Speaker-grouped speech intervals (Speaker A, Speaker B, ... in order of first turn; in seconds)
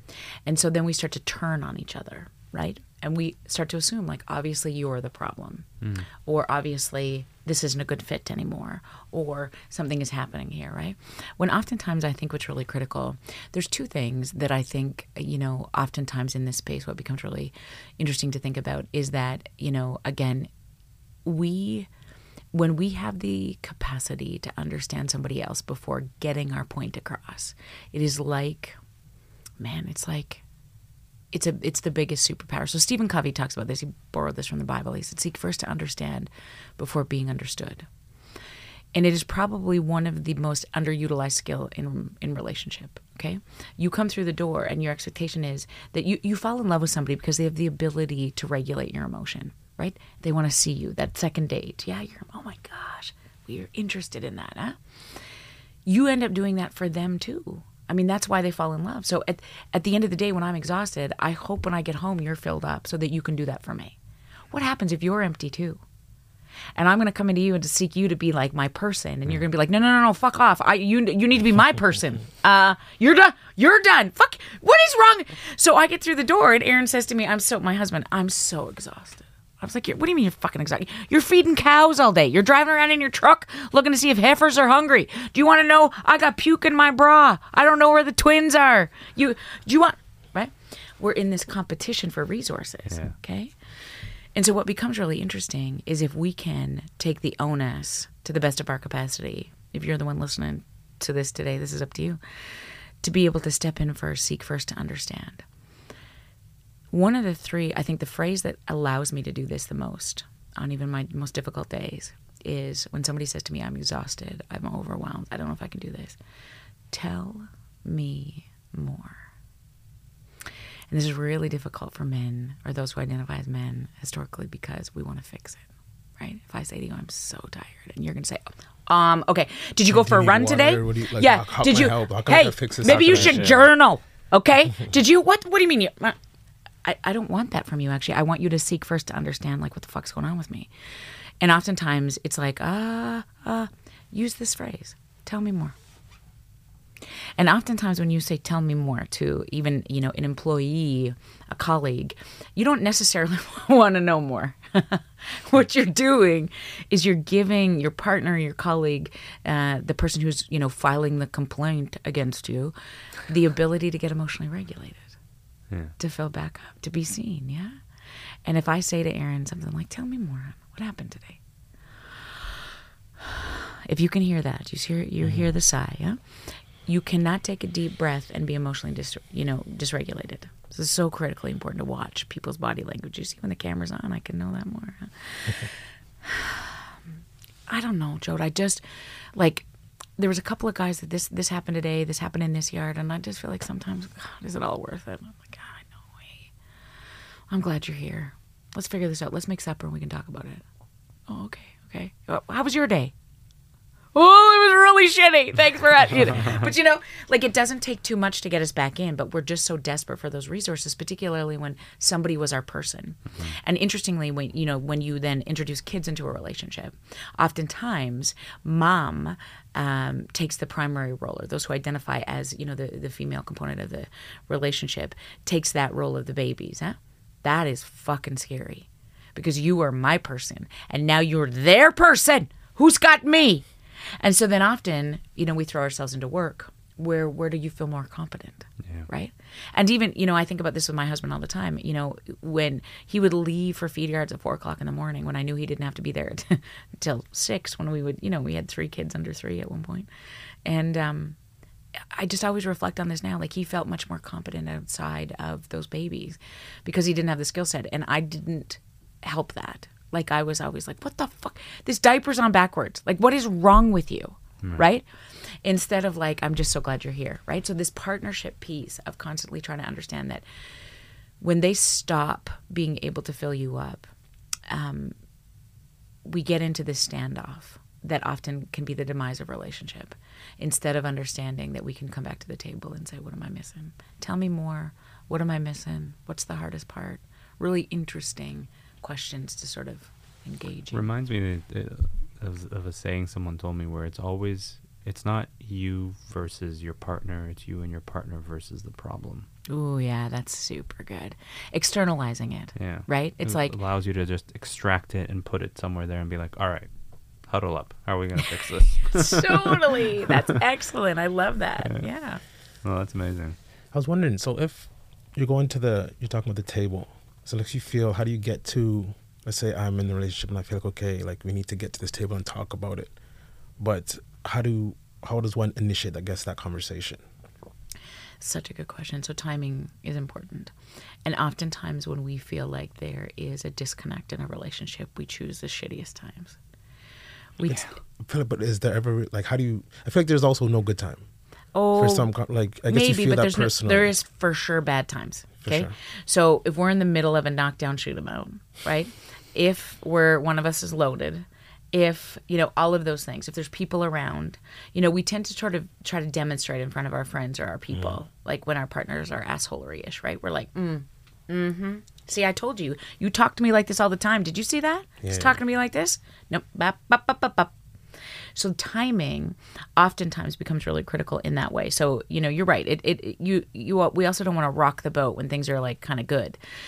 Speaker A: 0.5-20.5, 21.2-21.9, 22.5-28.8, 29.6-30.4, 31.3-37.9, 38.9-54.8, 55.9-64.0, 64.5-65.8, 66.8-93.5, 94.3-102.2, 103.0-105.5, 106.9-116.2, 116.9-119.3, 120.9-125.6, 126.2-136.2, 136.8-140.7, 141.4-145.7, 147.4-162.7, 163.3-165.2, 166.0-167.8, 168.4-171.4, 173.2-176.2, 176.9-186.9, 187.7-196.5, 197.5-200.6, 201.3-203.1, 204.1-233.7, 234.2-250.1, 250.7-251.4, 252.1-270.4, 271.4-274.1, 274.7-275.2, 276.3-291.1, 299.7-303.8, 309.1-312.4, 328.4-330.7, 331.2-336.6, 337.6-337.9, 341.7-342.3, 342.9-367.7, 368.6-376.6
Speaker B: 5.8-6.1, 92.9-93.1, 132.8-133.7, 290.9-299.5, 302.8-306.9, 307.5-310.2, 312.8-313.6
Speaker C: 129.9-133.6, 313.9-323.2, 323.8-327.2, 338.2-341.2, 341.9-344.1, 345.6-345.9, 365.2-365.6